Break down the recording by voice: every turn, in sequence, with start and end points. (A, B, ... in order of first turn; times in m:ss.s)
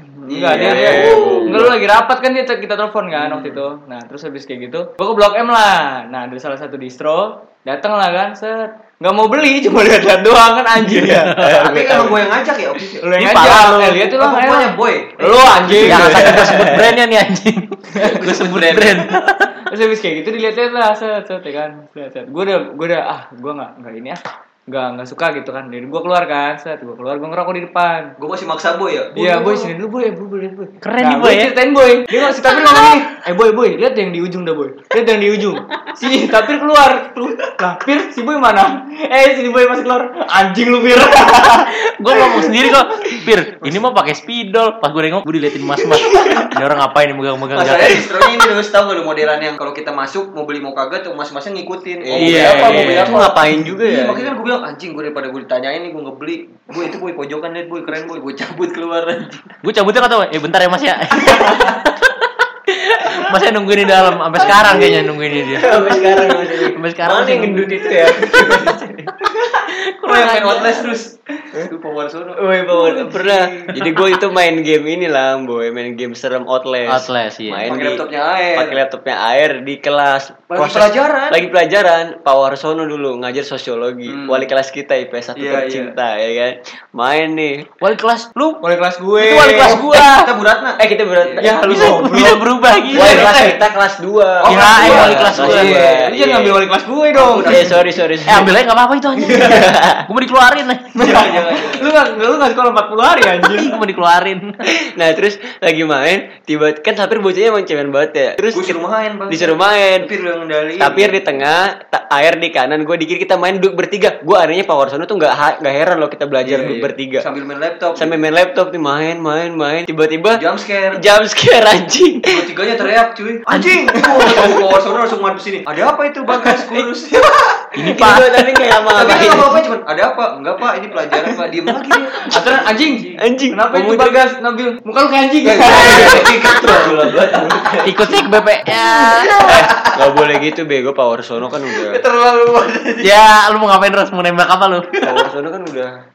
0:00.2-0:11.3 A
0:00.3-0:01.3 B
0:00.5-0:01.8 C
0:01.2-0:01.6 D
0:11.0-0:11.8 D
0:11.3-0:12.2 C
0:11.4-0:13.0 B
0:13.0-0:16.5 A
0:13.2-0:14.0 D
0:13.9-0:16.6 B
0:15.8-0:19.5 D
0:16.2-0:16.9 C
0:18.0-0:19.1 B
0:19.7-0:28.1 A
0:28.2-0:29.7 B
0:29.1-0:42.4 A
0:30.8-0:31.5 D
0:32.1-0:33.0 D
0:41.6-0:48.2 D
0:43.6-0:43.9 B
0:47.5-0:59.5 B
0:52.1-0:53.2 D
0:52.1-0:54.3 C
0:59.6-1:08.0 D
1:04.4-1:09.1 C
1:04.5-1:04.8 B
1:09.6-1:11.0 D
1:10.0-1:13.7 B
1:12.4-1:18.0 C
1:13.8-1:14.0 D
1:16.9-1:17.7 D
1:17.6-1:18.8 B
1:18.5-1:27.6 C
1:20.5-1:21.4 B
1:24.1-1:24.5 B
1:25.4-1:25.9 B
1:27.8-1:28.6 D
1:28.6-1:29.8 A
1:29.2-1:30.3 D
1:29.6-1:31.5 B
1:30.8-1:31.6 C
1:31.4-1:32.4 A
1:31.6-1:33.5 D
1:32.9-1:33.4 B
1:32.9-1:36.6 C
1:34.4-1:38.0 B
1:34.5-1:35.8 D
1:34.5-1:34.8 A
1:36.4-1:37.6 A
1:37.4-1:38.5 C
1:38.2-1:40.9 D
1:39.3-1:40.0 C
1:41.0-1:43.7 A
1:41.0-1:41.9 B
1:43.4-1:44.6 D
1:44.7-1:48.8 C
1:48.5-1:51.4 B
1:49.3-1:50.1 C
1:50.8-1:57.2 C
1:56.4-1:58.2 B
1:58.0-2:00.4 C
2:00.4-2:01.0 B
2:01.0-2:02.3 C
2:02.3-2:07.9 B
2:03.5-2:04.0 A
2:07.8-2:08.3 D
2:07.8-2:09.5 C
2:08.9-2:12.7 B
2:12.2-2:16.3 A
2:12.8-2:13.2 D
2:13.2-2:14.2 C
2:15.4-2:17.7 B
2:15.6-2:18.0 C
2:17.8-2:19.7 D
2:19.4-2:20.0 B
2:19.4-2:22.0 C
2:21.9-2:23.2 B
2:23.0-2:25.2 D
2:25.0-2:25.9 C